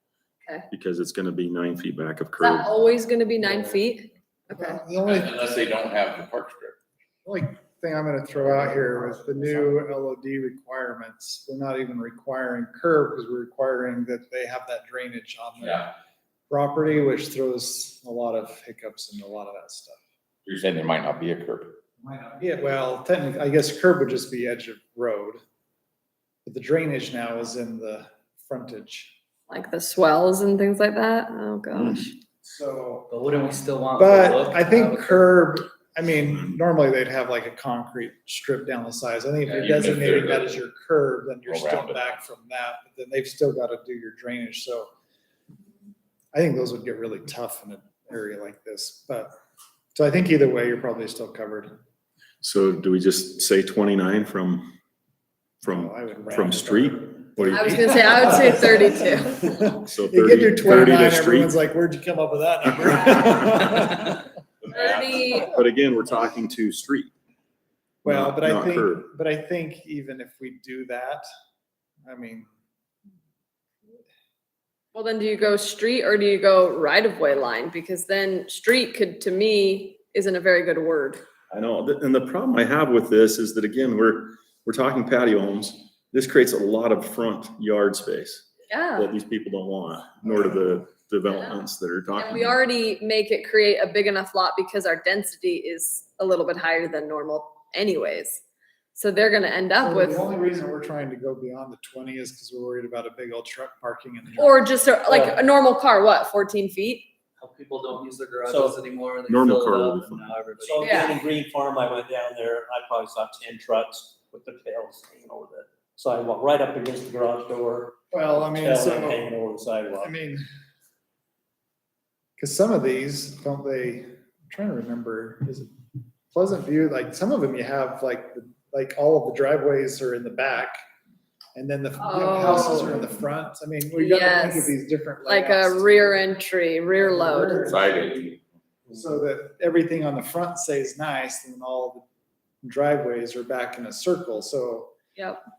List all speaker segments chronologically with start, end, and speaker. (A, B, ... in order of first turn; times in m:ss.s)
0:00.7-0:02.7 A
0:02.4-0:04.8 B
0:04.5-0:05.7 C
0:05.0-0:06.8 D
0:07.2-0:15.9 C
0:08.5-0:09.5 E
0:15.6-0:15.9 D
0:16.5-0:20.0 C
0:20.4-0:21.8 D
0:22.0-0:25.4 C
0:26.4-0:29.1 C
0:29.5-0:32.1 B
0:32.4-0:33.1 C
0:33.1-0:35.3 E
0:34.0-0:44.9 C
0:36.3-0:36.5 A
0:39.4-0:40.6 D
0:41.4-0:42.2 D
0:46.3-0:49.3 C
0:49.9-0:51.7 C
0:52.4-0:54.7 A
0:53.4-0:53.7 F
0:55.6-1:04.2 C
0:55.6-0:58.5 A
0:57.4-0:57.6 F
0:57.5-0:59.4 B
0:59.9-1:01.5 A
1:04.6-1:05.4 D
1:04.7-1:05.5 B
1:05.4-1:07.1 A
1:05.7-1:06.6 F
1:08.0-1:11.2 C
1:08.0-1:09.0 A
1:12.0-1:12.5 C
1:14.9-1:21.2 B
1:21.5-1:32.6 A
1:28.7-1:29.1 B
1:31.3-1:31.6 B
1:32.1-1:38.4 B
1:38.9-1:40.3 B
1:39.8-1:44.8 C
1:44.4-1:47.1 B
1:47.4-1:51.3 E
1:48.5-1:48.8 F
1:49.3-1:50.4 A
1:49.3-1:58.0 F
1:50.8-1:51.1 B
1:58.1-1:59.3 C
1:58.6-2:00.1 F
1:59.9-2:00.4 C
2:02.4-2:05.7 C
2:06.3-2:10.8 C
2:11.6-2:16.3 C
2:12.0-2:13.0 B
2:13.9-2:14.7 B
2:15.2-2:17.7 B
2:16.9-2:18.2 C
2:17.7-2:18.4 D
2:18.9-2:22.0 C
2:22.6-2:24.9 C
2:25.2-2:25.4 B